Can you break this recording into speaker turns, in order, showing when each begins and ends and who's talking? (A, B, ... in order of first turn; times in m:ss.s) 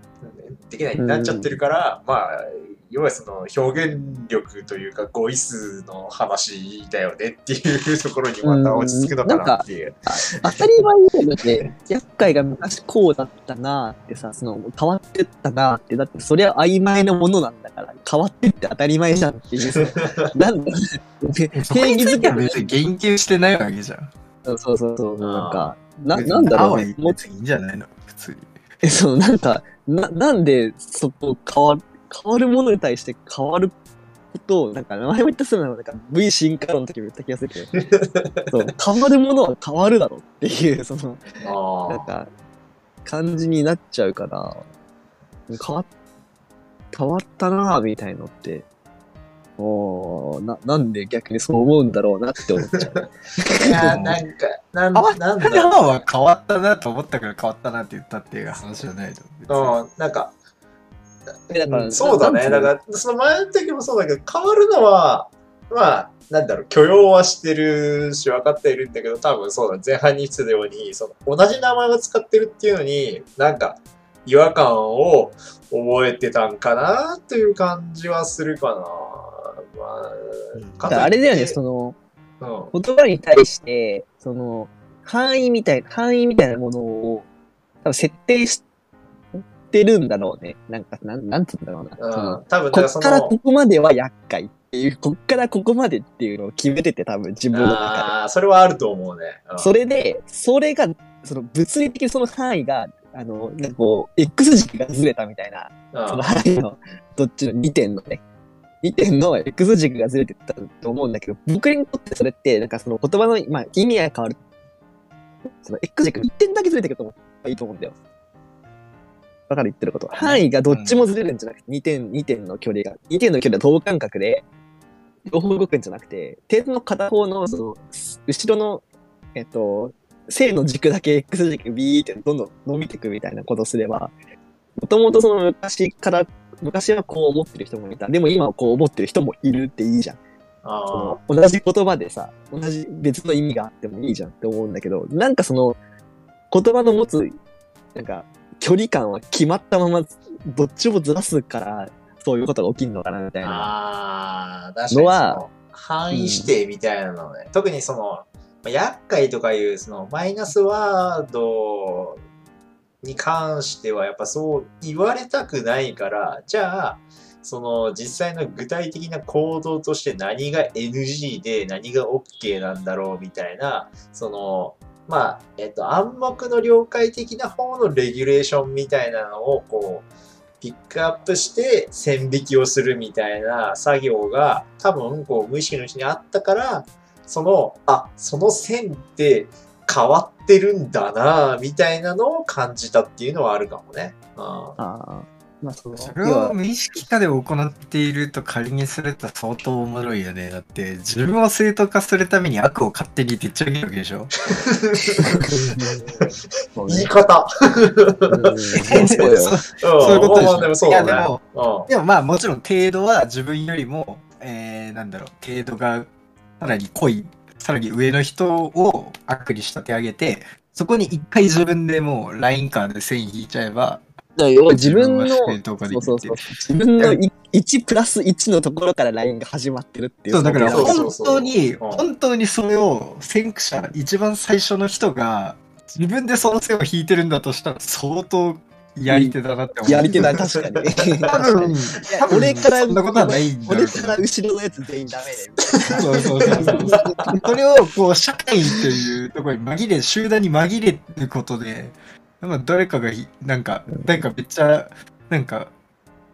0:00.2-0:10.7 A
0:01.0-0:01.5 B
0:08.4-0:22.6 B
0:19.8-0:20.3 A
0:21.5-0:24.1 C
0:24.4-0:27.2 B
0:25.2-0:25.8 A
0:26.1-0:28.5 C
0:28.8-0:33.7 B
0:34.3-0:37.8 B
0:37.7-0:38.4 A
0:38.5-0:42.3 B
0:41.4-0:42.1 A
0:43.0-0:44.6 B
0:45.5-0:45.9 B
0:46.9-0:48.6 B
0:49.6-0:54.0 B
0:52.6-0:53.0 A
0:53.6-0:55.9 A
0:53.8-0:54.2 C
0:54.9-0:59.8 C
0:59.5-1:00.3 A
1:01.5-1:02.7 B
1:01.6-1:21.6 A
1:20.6-1:21.1 C
1:20.9-1:22.0 B
1:22.4-1:22.7 A
1:22.7-1:27.3 B
1:27.8-1:28.6 B
1:29.3-1:38.1 B
1:32.0-1:33.4 A
1:37.5-1:39.7 A
1:39.6-1:48.2 B
1:45.9-1:46.2 A
1:48.8-1:54.4 B
1:55.6-1:58.0 B
1:59.5-2:04.4 B
2:00.2-2:01.1 C
2:05.3-2:08.8 B
2:09.3-2:14.1 B
2:14.8-2:20.2 B
2:20.6-2:21.2 A
2:20.9-2:25.8 B
2:26.5-2:27.4 B
2:27.9-2:33.7 B
2:33.4-2:42.2 A
2:34.9-2:35.4 B
2:36.1-2:36.5 B
2:43.0-3:00.1 A
3:00.6-3:14.8 A
3:14.8-3:16.6 B
3:15.9-3:24.3 C
3:24.5-3:25.2 A
3:25.2-3:27.1 B
3:26.8-3:29.0 A
3:28.3-3:30.7 B
3:28.7-3:44.0 C
3:29.8-3:31.9 A
3:44.4-3:51.0 B
3:44.7-3:46.4 C
3:50.3-4:00.4 C
3:50.7-3:52.0 A
3:59.1-3:59.3 B
3:59.8-4:07.4 B
4:00.3-4:00.6 A
4:01.1-4:01.4 A
4:01.2-4:04.2 C
4:05.9-4:07.0 A
4:05.9-4:15.7 C
4:13.9-4:14.2 B